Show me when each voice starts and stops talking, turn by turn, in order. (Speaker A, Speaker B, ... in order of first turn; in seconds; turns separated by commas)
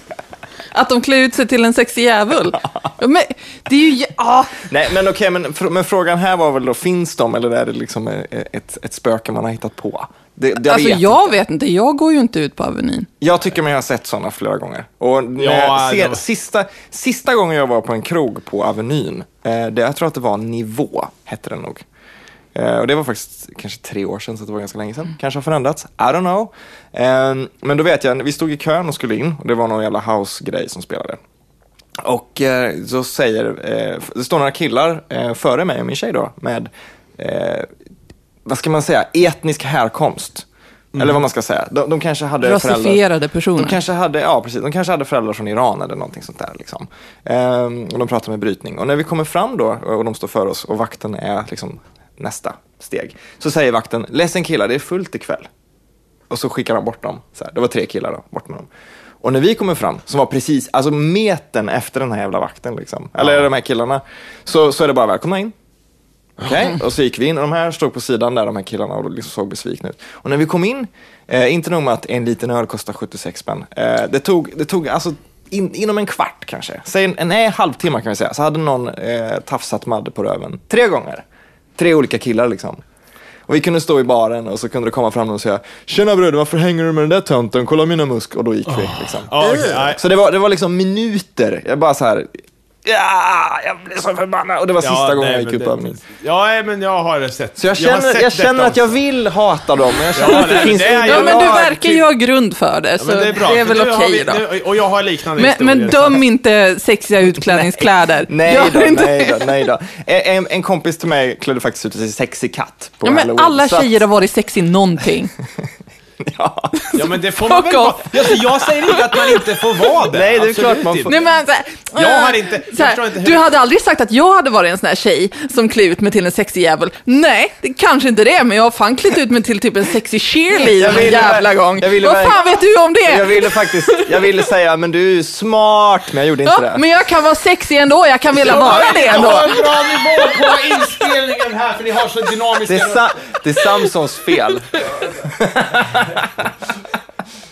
Speaker A: 0.7-4.6, Speaker B: 4.6-11.2, Speaker A: 10.6-13.1, Speaker B: 13.2-21.8, Speaker C: 15.4-16.2, Speaker B: 22.5-31.2, Speaker B: 32.0-37.7, Speaker B: 38.5-43.0, Speaker A: 42.4-43.8, Speaker B: 43.6-55.5, Speaker B: 56.3-58.7, Speaker B: 59.2-65.5, Speaker B: 66.4-81.2, Speaker B: 81.8-82.8, Speaker B: 83.5-96.0, Speaker C: 88.8-90.0, Speaker C: 94.8-98.9, Speaker B: 97.6-101.8, Speaker C: 100.1-102.0, Speaker A: 100.2-104.5, Speaker C: 103.0-106.2, Speaker A: 105.3-109.5, Speaker B: 107.5-114.0, Speaker A: 113.0-115.3, Speaker B: 116.2-117.0, Speaker C: 116.9-121.1, Speaker A: 117.5-119.4, Speaker B: 120.1-121.2, Speaker A: 121.1-134.1, Speaker C: 121.9-123.4, Speaker B: 130.7-132.4, Speaker B: 133.0-136.8, Speaker A: 136.4-139.7, Speaker C: 138.4-143.1, Speaker B: 142.7-146.3